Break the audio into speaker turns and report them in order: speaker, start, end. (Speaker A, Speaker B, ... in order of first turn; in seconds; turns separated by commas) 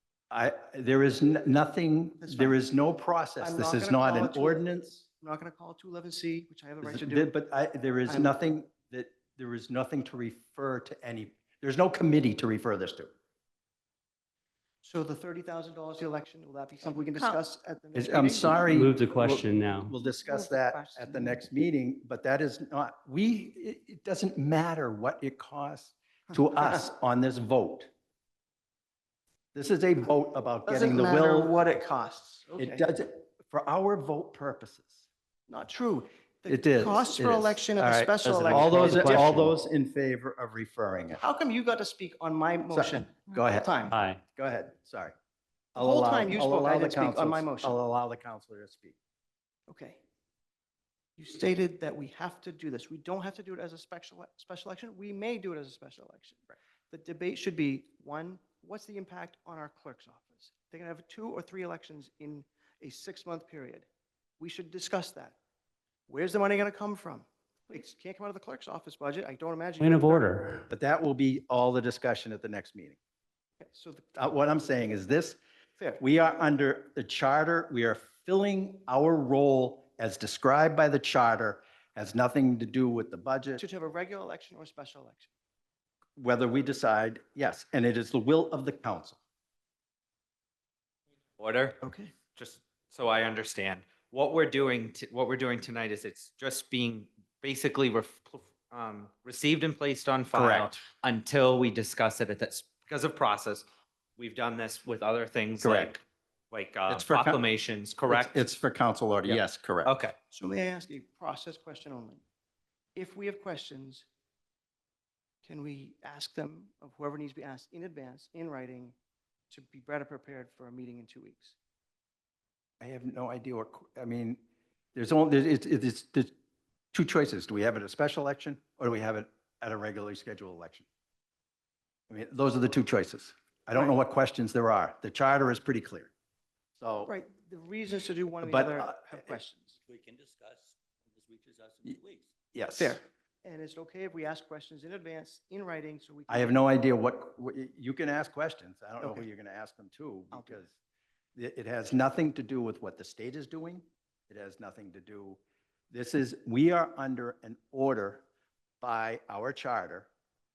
Speaker A: 0.3-5.0, Speaker B: 2.2-2.6, Speaker B: 3.4-7.3, Speaker A: 6.8-13.1, Speaker B: 8.1-8.3, Speaker B: 14.8-18.7, Speaker A: 17.9-27.9, Speaker C: 18.6-19.9, Speaker B: 20.2-21.4, Speaker B: 26.3-26.8, Speaker A: 29.5-31.6, Speaker B: 30.7-32.9, Speaker A: 32.6-35.0, Speaker B: 35.5-39.5, Speaker A: 36.5-41.2, Speaker C: 38.2-39.5, Speaker B: 41.2-44.0, Speaker A: 42.7-43.8, Speaker C: 43.9-44.2, Speaker A: 44.4-45.1, Speaker A: 45.8-49.0, Speaker B: 45.8-47.8, Speaker B: 49.7-50.0, Speaker B: 51.2-63.9, Speaker B: 64.4-65.4, Speaker B: 66.1-70.3, Speaker C: 69.8-70.7, Speaker A: 70.7-73.0, Speaker B: 73.7-74.1, Speaker A: 74.2-75.4, Speaker A: 76.0-83.6, Speaker B: 83.6-85.3, Speaker A: 86.2-89.2, Speaker D: 91.4-91.8, Speaker B: 91.8-92.1, Speaker D: 92.4-103.7, Speaker A: 100.3-100.8, Speaker D: 104.2-106.0, Speaker A: 105.6-105.9, Speaker D: 106.5-108.4, Speaker A: 106.9-107.4, Speaker A: 108.1-109.9, Speaker D: 109.3-110.2, Speaker B: 110.3-112.2, Speaker B: 113.0-114.1, Speaker B: 115.4-118.9, Speaker B: 119.5-121.6, Speaker A: 122.8-124.4, Speaker A: 125.0-126.3, Speaker A: 126.9-130.9, Speaker A: 132.1-136.1, Speaker A: 136.8-137.1, Speaker B: 137.0-139.8, Speaker A: 138.4-139.3, Speaker E: 139.9-142.3, Speaker A: 142.5-143.0, Speaker B: 142.8-146.6, Speaker A: 146.3-150.7, Speaker B: 150.3-150.6, Speaker A: 151.3-155.4, Speaker A: 155.9-158.2, Speaker A: 158.8-160.1